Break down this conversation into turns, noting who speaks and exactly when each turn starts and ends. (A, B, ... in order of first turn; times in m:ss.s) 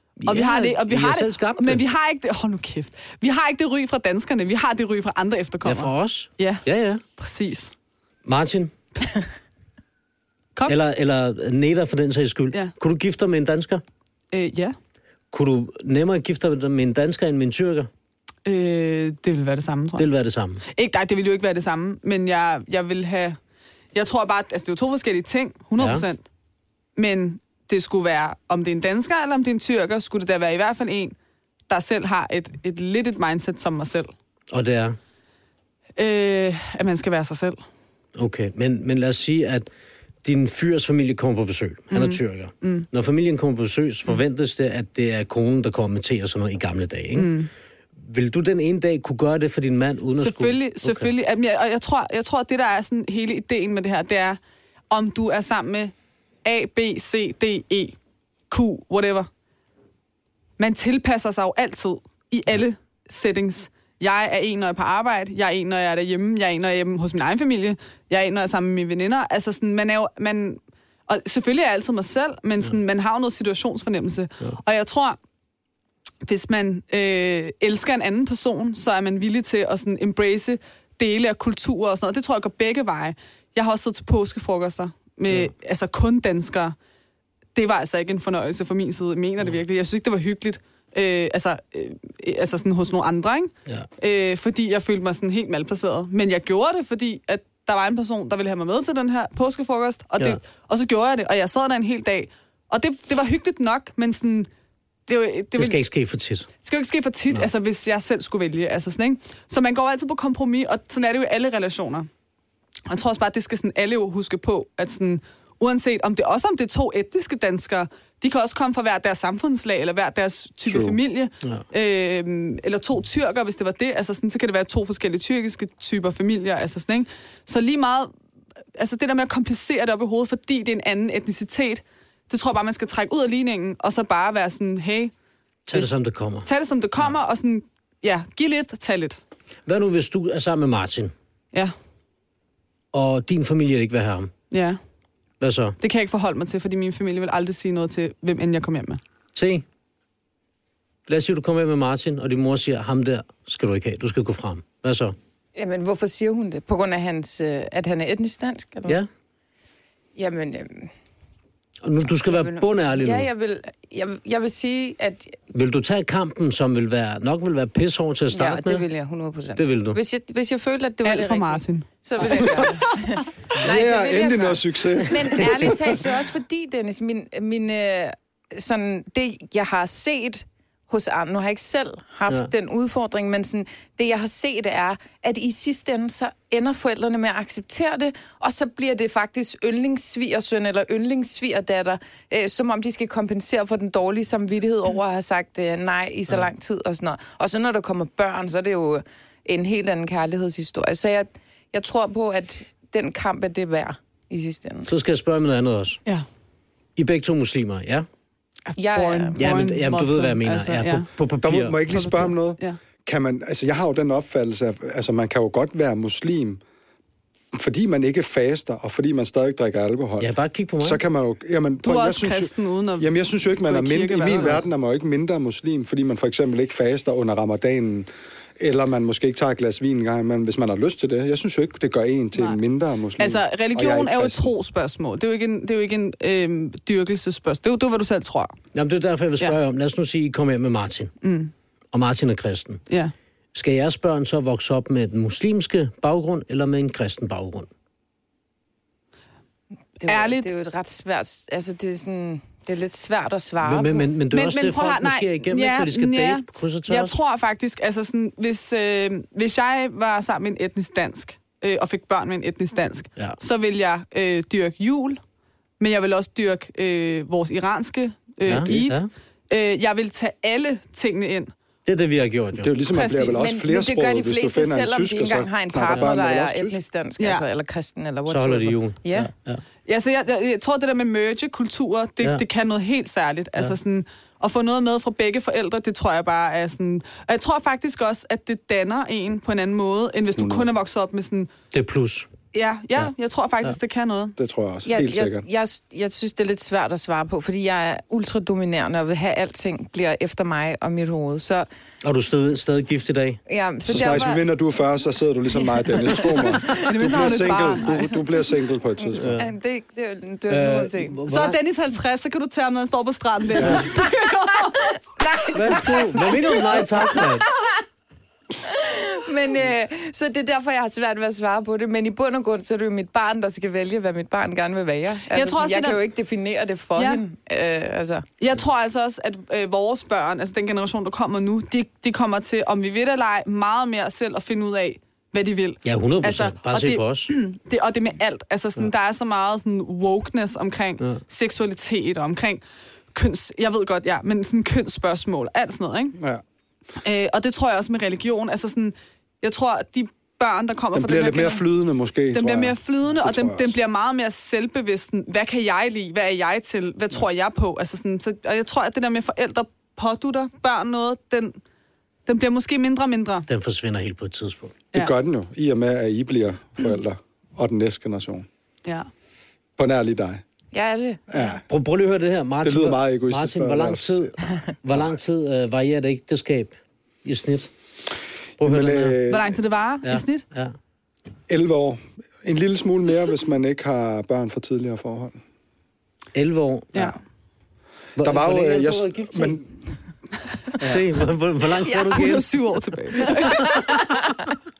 0:00.2-0:01.8 A
0:00.2-0:06.6 B
0:05.6-0:07.0 A
0:07.2-0:07.7 B
0:08.2-0:08.7 A
0:10.7-0:13.8 A
0:14.3-0:14.7 B
0:15.3-0:17.9 A
0:18.4-0:20.1 B
0:20.0-0:20.6 A
0:20.7-0:23.4 B
0:23.9-0:26.2 B
0:25.8-0:26.0 A
0:27.0-0:31.1 B
0:31.7-0:34.1 B
0:34.5-0:35.0 A
0:36.0-0:37.6 B
0:38.2-0:39.7 A
0:40.2-0:47.4 A
0:41.9-0:42.8 B
0:47.1-0:47.5 B
0:48.0-0:51.1 A
0:50.2-0:54.4 B
0:54.9-0:55.9 B
0:56.4-0:58.0 B
0:58.5-0:59.3 B
1:00.6-1:15.2 B
1:16.2-1:26.7 B
1:27.5-1:44.5 B
1:45.1-1:45.8 B
1:45.6-1:46.5 A
1:46.6-1:52.1 B
1:52.9-2:08.1 B
2:00.7-2:01.0 C
2:08.8-2:15.1 B
2:15.7-2:16.5 A
2:15.7-2:19.2 B
2:19.6-2:21.1 A
2:22.9-2:24.3 A
2:24.5-2:24.8 B
2:25.4-2:25.8 A
2:25.8-2:29.0 B
2:29.3-2:29.6 A
2:31.1-2:35.2 A
2:35.6-2:39.0 D
2:40.2-2:40.9 D
2:41.8-2:43.3 A
2:42.2-2:45.4 D
2:45.5-2:48.8 A
2:48.3-3:24.9 D
2:49.6-2:50.0 A
2:51.0-2:52.7 B
2:53.5-2:55.9 C
3:24.9-3:26.0 A
3:27.0-3:28.1 A
3:28.7-3:31.1 B
3:28.8-3:29.4 D
3:29.4-3:31.8 A
3:31.4-3:36.6 C
3:31.9-3:32.8 B
3:37.5-3:48.1 C
3:40.2-3:41.0 A
3:41.8-3:44.6 B
3:48.6-3:54.5 C
3:53.2-3:58.5 B
3:58.7-4:01.1 A
4:01.2-4:01.5 B
4:01.9-4:02.8 A
4:03.5-4:07.7 A
4:10.0-4:14.1 D
4:10.1-4:10.5 B
4:13.6-4:17.2 A
4:14.3-4:25.2 B
4:25.8-4:31.5 B
4:28.4-4:29.1 A
4:28.5-4:28.8 C
4:31.8-4:32.7 A
4:32.6-4:36.8 C
4:32.9-4:33.4 B
4:33.3-4:39.3 D
4:37.2-4:37.4 B
4:38.3-4:39.6 A
4:39.8-4:51.5 B
4:50.4-4:50.7 C
4:51.7-4:52.3 A
4:52.5-4:54.4 B
4:54.4-4:55.4 C
4:54.8-5:01.7 D
5:02.0-5:03.4 A
5:03.5-5:04.4 D
5:03.9-5:09.4 C
5:05.7-5:06.8 D
5:06.4-5:08.2 B
5:09.1-5:09.5 A
5:09.3-5:11.2 D
5:10.5-5:11.6 A
5:11.3-5:15.0 B
5:13.6-5:13.9 C
5:13.6-5:13.9 A
5:13.9-5:17.7 D
5:15.5-5:17.4 A
5:18.6-5:28.2 D
5:25.3-5:26.0 B
5:27.0-5:27.2 B
5:28.4-5:42.6 B
5:35.8-5:37.3 A
5:43.1-5:46.2 B
5:47.0-5:51.6 B
5:50.9-5:53.7 C
5:52.3-6:01.5 B
6:02.2-6:03.4 B
6:03.5-6:04.8 A
6:04.9-6:08.4 C
6:09.8-6:10.4 C
6:10.7-6:11.3 D
6:11.3-6:11.6 C
6:11.7-6:17.7 A
6:12.6-6:14.3 C
6:18.6-6:19.2 A
6:18.6-6:19.5 C
6:19.3-6:20.4 B
6:20.0-6:20.7 A
6:21.5-6:25.4 C
6:26.3-6:27.1 A
6:28.2-6:29.6 A
6:28.2-6:29.7 C
6:30.8-6:32.6 A
6:32.0-6:33.9 B
6:33.2-6:34.0 A